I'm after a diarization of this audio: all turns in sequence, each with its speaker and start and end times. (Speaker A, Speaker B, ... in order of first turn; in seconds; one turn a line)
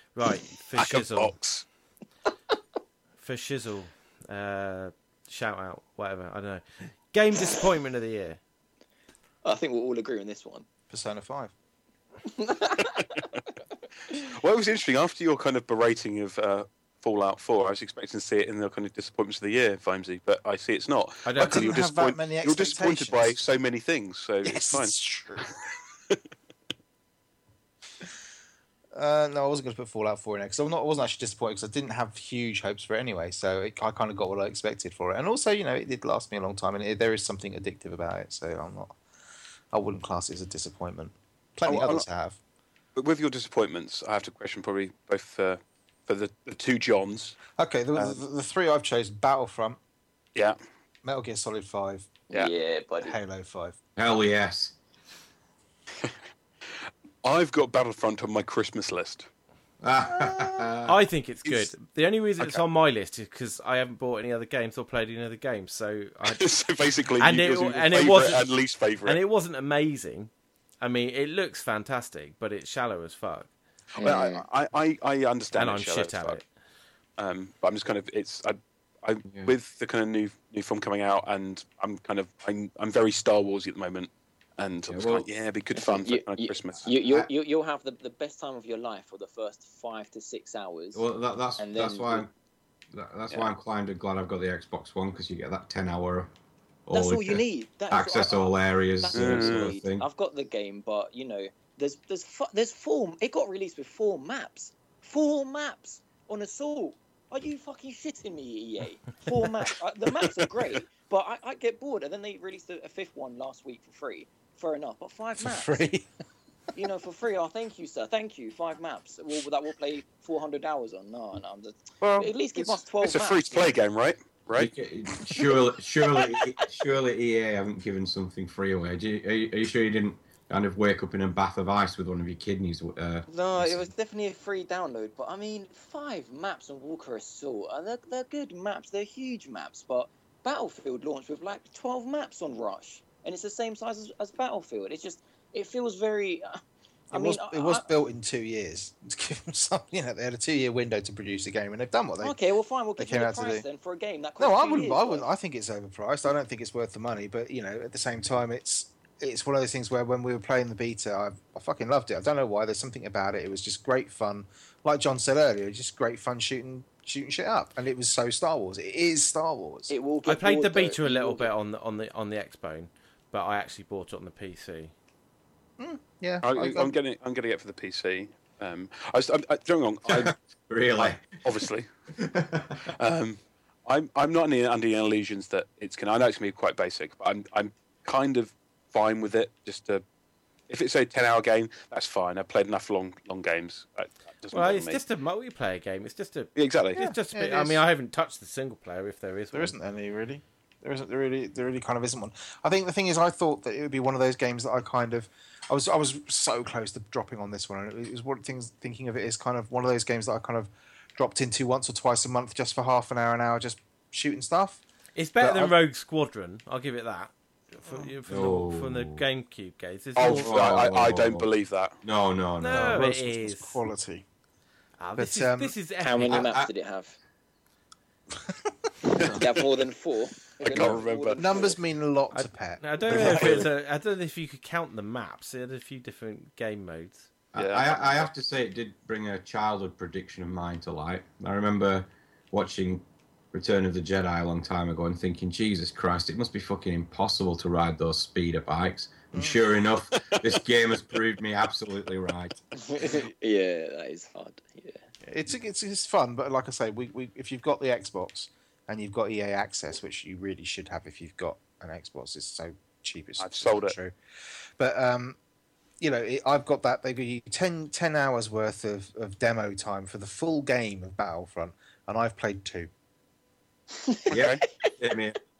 Speaker A: 0.1-1.3
Speaker B: 0.8-1.6
Speaker A: 3.2-8.4
Speaker C: 9.4-10.7
Speaker D: 10.9-11.5
Speaker C: 12.2-13.3
Speaker B: 14.1-25.0
Speaker A: 21.2-21.6
Speaker D: 21.4-23.4
Speaker D: 24.4-25.6
Speaker D: 28.9-39.0
Speaker D: 39.7-42.4
Speaker B: 41.7-42.1
Speaker B: 43.0-47.4
Speaker D: 47.6-49.8
Speaker D: 51.0-52.1
Speaker C: 52.3-53.1
Speaker D: 53.0-53.8
Speaker E: 54.0-54.8
Speaker B: 57.2-59.3
Speaker E: 59.8-61.0
Speaker A: 60.9-66.5
Speaker B: 66.3-69.2
Speaker A: 67.2-68.5
Speaker A: 69.0-73.5
Speaker C: 74.0-74.5
Speaker B: 74.0-76.4
Speaker A: 75.5-76.5
Speaker B: 77.2-87.0
Speaker E: 79.3-79.5
Speaker E: 84.9-85.3
Speaker C: 85.8-91.0
Speaker E: 91.0-92.3
Speaker C: 91.6-92.3
Speaker E: 92.9-96.3
Speaker E: 96.9-100.1
Speaker C: 96.9-115.8
Speaker B: 99.1-99.7
Speaker D: 115.4-116.1
Speaker C: 116.7-123.8
Speaker B: 122.0-124.7
Speaker E: 124.6-133.9
Speaker C: 126.1-126.7
Speaker C: 133.3-147.9
Speaker D: 147.1-152.4
Speaker C: 152.2-155.3
Speaker D: 153.0-153.7
Speaker D: 154.4-169.9
Speaker C: 169.9-171.5
Speaker A: 170.3-174.9
Speaker D: 175.8-176.9
Speaker B: 176.4-180.3
Speaker E: 180.1-181.4
Speaker B: 181.0-181.9
Speaker E: 182.2-182.8
Speaker B: 182.9-190.0
Speaker B: 190.7-195.0
Speaker A: 194.5-199.8
Speaker B: 196.6-197.0
Speaker D: 197.0-197.8
Speaker D: 199.5-214.8
Speaker A: 215.2-220.7
Speaker D: 215.4-215.8
Speaker E: 218.3-219.2
Speaker B: 220.2-222.0
Speaker E: 220.2-221.5
Speaker E: 222.0-223.1
Speaker A: 222.6-223.8
Speaker D: 222.7-224.2
Speaker A: 225.0-226.5
Speaker D: 225.2-225.8
Speaker C: 226.0-227.2
Speaker E: 226.3-226.7
Speaker B: 229.2-229.4
Speaker C: 229.2-231.8
Speaker B: 230.6-231.7
Speaker D: 230.8-233.7
Speaker A: 232.3-237.3
Speaker B: 233.1-233.7
Speaker E: 237.5-252.6
Speaker B: 237.6-238.3
Speaker D: 249.3-249.6
Speaker C: 252.7-255.0
Speaker D: 255.2-264.1
Speaker B: 263.4-264.0
Speaker D: 264.8-265.4
Speaker D: 266.0-272.9
Speaker C: 274.0-274.9
Speaker B: 274.3-274.6
Speaker E: 274.3-275.4